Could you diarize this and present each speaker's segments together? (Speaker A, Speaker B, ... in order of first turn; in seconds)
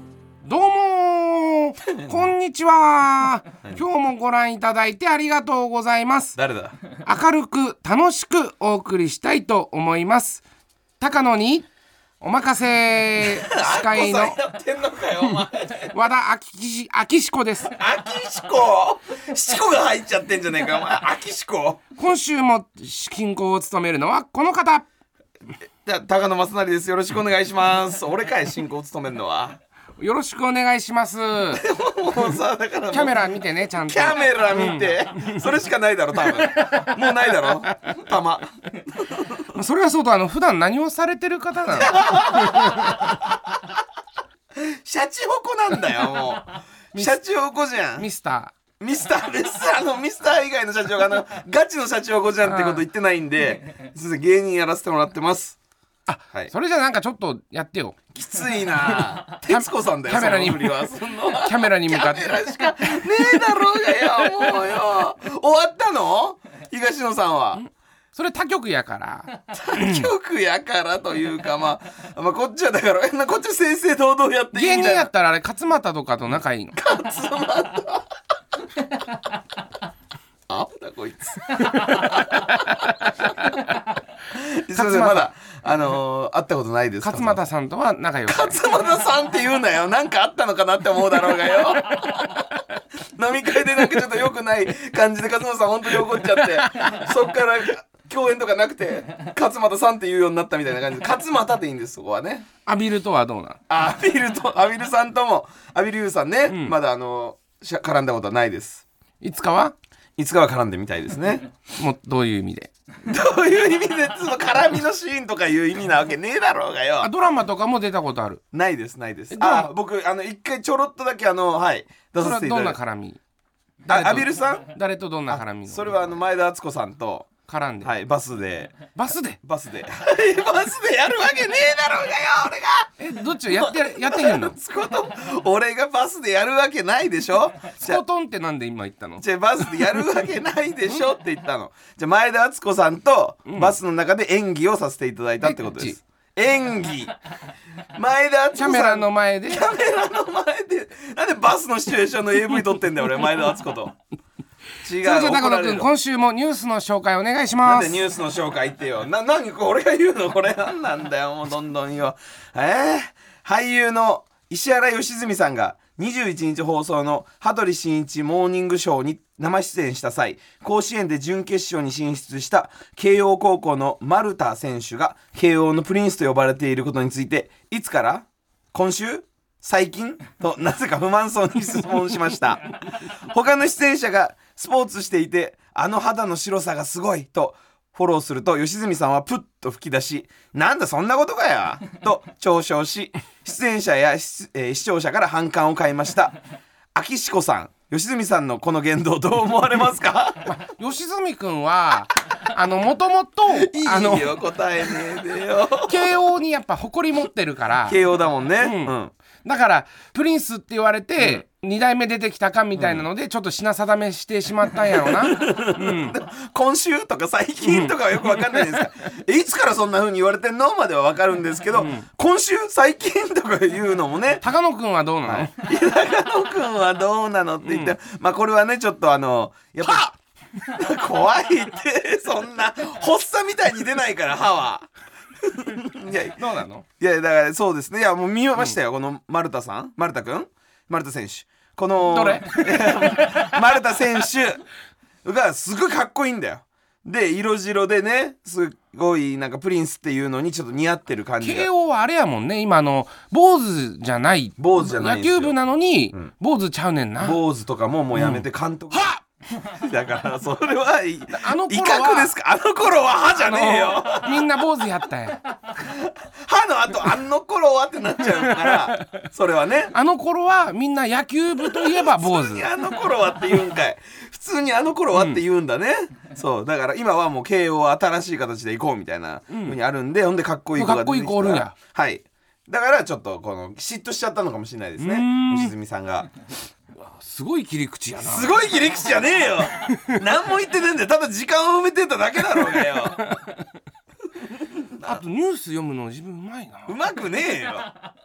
Speaker A: 0.4-6.4, 7.0-10.4, 11.0-11.7, 12.2-14.4, 15.9-17.7, 21.9-24.9, 30.0-31.6, 32.9-35.4, 36.2-37.5, 39.5-43.0, 48.0-48.5, 52.4-52.8, 56.1-58.0, 58.9-62.5, 67.6-70.1, 74.5-76.8, 81.7-82.6, 84.7-85.3, 87.0-88.6, 96.4-97.0, 102.7-103.6, 106.5-106.8, 109.2-109.7, 111.8-112.7, 117.0-118.4, 119.3-119.7, 122.2-123.2, 123.8-126.0, 127.5-127.9, 128.9-129.4, 133.0-134.6, 137.8-139.2, 143.4-143.8, 145.4-146.0, 148.6-149.7, 155.0-158.0, 200.4-204.4, 205.7-208.0, 208.6-216.2, 217.6-218.8, 221.7-222.1, 224.4-225.5, 227.6-227.9, 236.3-236.8, 242.0-243.5, 251.4-257.4, 258.1-259.2, 261.3-262.3, 263.3-265.5, 268.4-269.2, 269.9-272.7, 275.1-275.4, 279.5-279.8, 280.8-281.7, 285.0-285.7, 286.9-288.5, 289.9-290.2, 292.7-293.6, 295.0-296.9
Speaker B: 1.9-2.3, 6.4-6.7, 13.2-15.9, 17.7-21.8, 25.8-29.6, 31.5-39.5, 41.7-43.6, 44.5-48.1, 48.8-55.6, 58.1-67.6, 69.5-75.1, 76.7-78.1, 80.5-82.7, 84.3-87.4, 88.3-102.4, 103.7-108.8, 110.2-111.4, 113.0-117.1, 118.5-122.8, 123.9-124.7, 125.3-127.3, 127.8-138.0, 139.2-147.1, 147.9-153.9, 154.8-155.9, 157.6-196.3, 196.9-200.5, 203.5-206.2, 207.8-209.1, 212.8-213.0, 214.7-224.4, 225.2-234.9, 235.4-236.4, 237.0-244.6, 245.2-251.7, 254.6-255.6, 257.2-264.5, 265.7-269.9, 271.6-286.3, 288.2-293.2, 294.4-295.2, 296.9-297.9